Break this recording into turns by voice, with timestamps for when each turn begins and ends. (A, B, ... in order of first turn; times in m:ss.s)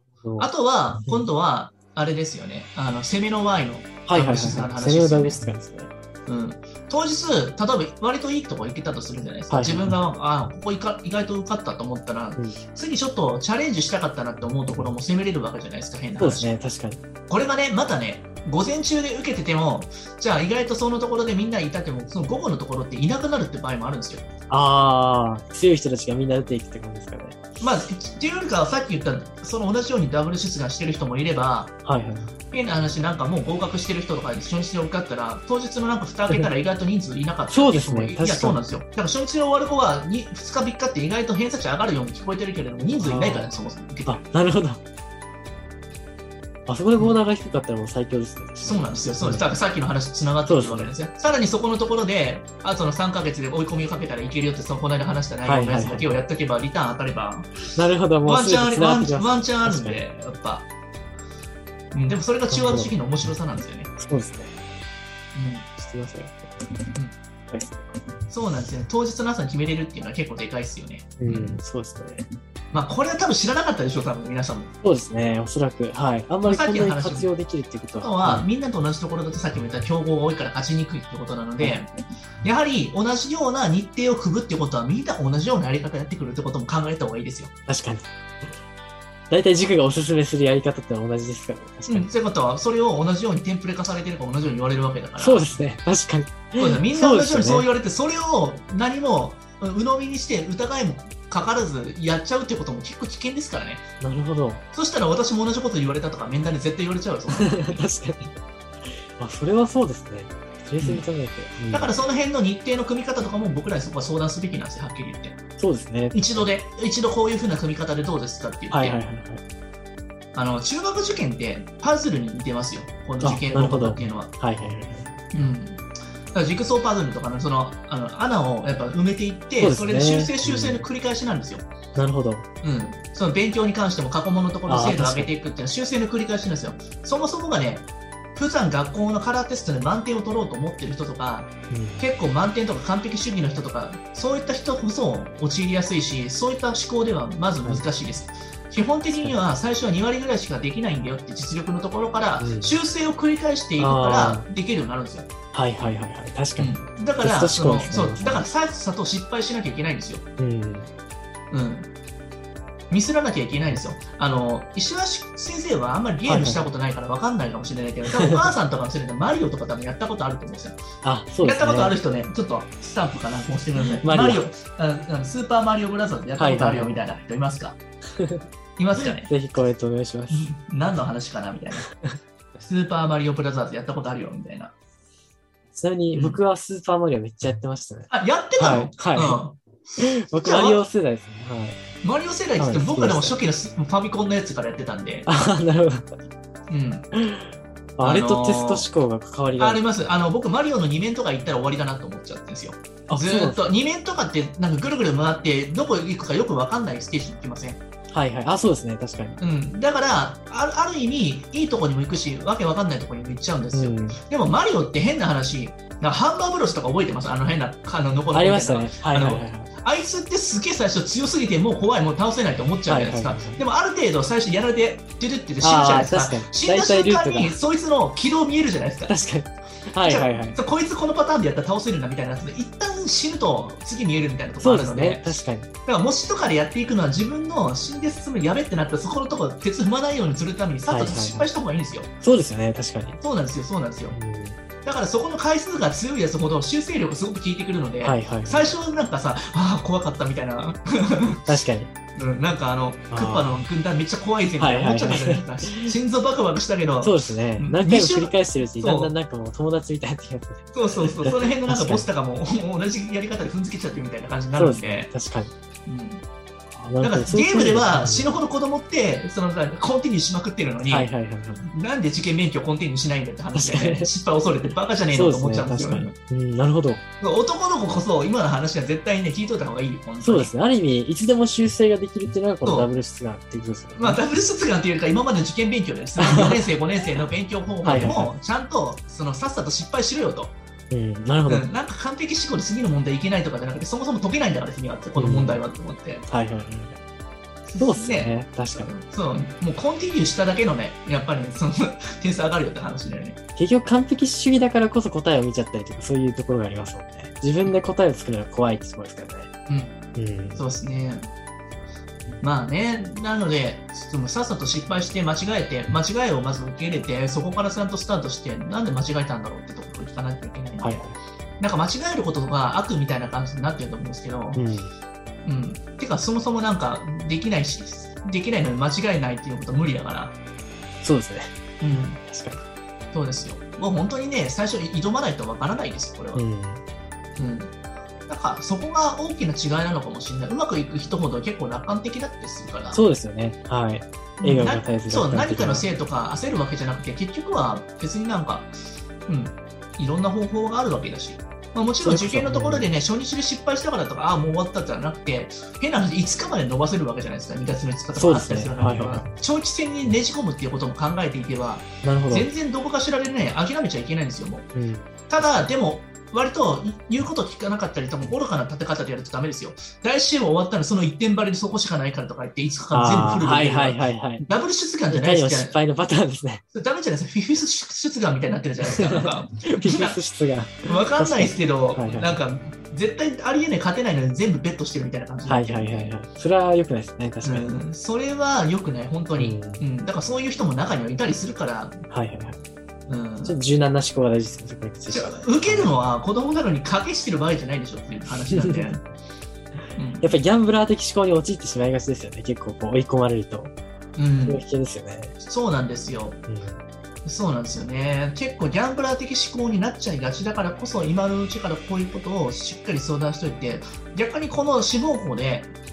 0:00.2-0:00.5 A
0:00.4-0:05.4 B
0:04.1-0:05.9 A
0:06.3-0:16.5 B
0:09.5-0:10.0 A
0:16.2-0:17.0 A
0:17.3-0:24.2 B
0:24.5-0:27.4 A
0:27.6-0:31.8 B
0:31.8-0:32.3 A
0:32.5-0:44.2 B
0:37.5-0:38.6 A
0:42.8-0:44.8 A
0:46.7-0:49.5 A
0:48.6-0:57.6 B
0:50.5-0:50.9 A
0:55.5-0:56.2 A
0:57.8-1:00.0 A
0:58.2-1:00.7 B
1:01.9-1:03.9 B
1:02.5-1:03.0 A
1:04.0-1:04.6 A
1:05.3-1:05.7 B
1:05.8-1:06.8 A
1:07.5-1:08.1 A
1:08.3-1:11.6 B
1:11.2-1:12.3 A
1:12.7-1:14.7 B
1:14.8-1:18.5 A
1:16.4-1:17.3 B
1:18.0-1:21.9 B
1:22.4-1:27.5 B
1:27.7-1:28.1 A
1:29.3-1:32.1 A
1:31.9-1:35.6 B
1:35.2-1:37.7 A
1:36.6-1:43.8 B
1:44.0-1:44.6 A
1:44.7-1:47.8 B
1:47.4-1:51.9 A
1:50.8-1:51.0 B
1:51.7-1:55.4 B
1:55.6-1:56.5 A
1:56.1-1:59.0 B
1:58.7-1:59.4 A
2:00.4-2:04.3 B
2:03.2-2:05.1 A
2:05.3-2:11.7 B
2:09.6-2:10.8 A
2:12.0-2:12.4 A
2:12.6-2:35.3 B
2:14.7-2:15.3 A
2:21.7-2:22.0 A
2:29.1-2:29.4 A
2:32.4-2:32.8 A
2:33.8-2:34.5 A
2:35.5-2:38.5 A
2:36.6-2:40.2 B
2:40.4-2:40.9 A
2:41.5-2:41.9 B
2:42.9-2:50.8 B
2:46.3-2:46.7 A
2:48.2-2:48.5 A
2:51.0-2:52.0 A
2:51.4-2:57.8 B
2:54.0-2:54.4 A
2:56.4-2:57.0 A
2:58.2-2:58.4 A
2:58.8-2:59.3 B
2:59.0-3:00.5 A
3:00.3-3:01.9 B
3:02.6-3:04.7 B
3:05.8-3:09.4 A
3:06.1-3:06.4 B
3:08.1-3:10.9 B
3:10.0-3:11.8 A
3:12.0-3:15.3 B
3:12.6-3:13.4 A
3:15.3-3:16.1 A
3:16.7-3:17.1 B
3:17.2-3:19.8 A
3:18.0-3:18.9 B
3:19.6-3:27.8 B
3:23.1-3:23.6 A
3:28.1-3:29.4 A
3:29.4-3:49.1 B
3:33.7-3:34.2 A
3:38.3-3:39.7 A
3:42.9-3:43.6 A
3:45.6-3:47.6 A
3:49.1-3:50.6 A
3:50.0-3:55.4 B
3:54.6-3:55.7 A
3:55.9-4:02.1 B
4:00.9-4:01.5 A
4:02.2-4:03.2 A
4:03.2-4:04.2 B
4:04.1-4:04.6 A
4:04.8-4:11.4 B
4:08.0-4:08.7 A
4:11.5-4:11.9 A
4:12.2-4:19.1 B
4:13.1-4:13.5 A
4:14.6-4:15.9 A
4:17.0-4:22.0 A
4:20.7-4:25.1 B
4:24.6-4:25.5 A
4:25.9-4:26.2 B
4:26.8-4:28.4 A
4:27.0-4:31.1 B
4:30.8-4:31.7 A
4:31.6-4:36.1 B
4:33.5-4:34.1 A
4:35.1-4:37.0 A
4:37.2-4:40.5 B
4:40.2-4:44.2 A
4:42.6-4:42.9 B
4:44.0-4:50.6 B
4:46.2-4:46.7 A
4:47.8-4:48.3 A
4:50.9-4:51.7 A
4:51.5-4:56.2 B
4:55.2-4:55.6 A
4:56.3-4:57.0 A
4:57.7-5:03.4 B
4:57.8-4:58.9 A
5:03.6-5:09.5 A
5:09.7-5:09.9 B
5:10.2-5:10.6 A
5:10.6-5:11.3 B
5:12.4-5:21.0 B
5:20.8-5:21.2 A
5:21.6-5:24.6 B
5:24.6-5:24.9 A
5:25.4-5:30.4 B
5:31.0-5:31.5 A
5:31.8-5:32.2 B
5:32.2-5:32.6 A
5:33.1-5:36.4 B
5:36.4-5:36.8 A
5:37.4-5:37.7 B
5:38.3-5:43.0 B
5:42.9-5:45.9 A
5:44.4-5:48.7 B
5:49.3-6:04.7 B
5:52.0-5:52.9 A
5:58.2-5:59.3 A
6:02.0-6:02.5 A
6:04.7-6:05.1 A
6:05.3-6:15.8 B
6:12.9-6:14.4 A
6:15.1-6:16.6 A
6:16.7-6:20.2 B
6:18.9-6:22.4 A
6:20.9-6:26.2 B
6:25.5-6:27.7 A
6:27.4-6:32.0 B
6:29.4-6:29.8 A
6:32.1-6:32.6 A
6:33.1-6:33.6 B
6:33.4-6:36.0 A
6:35.1-6:39.0 B
6:38.5-6:38.8 A
6:40.0-6:40.4 B
6:40.2-6:43.7 A
6:44.2-6:44.6 B
6:44.5-6:45.3 A
6:45.4-6:46.4 B
6:46.5-6:46.8 A
6:47.2-6:55.7 B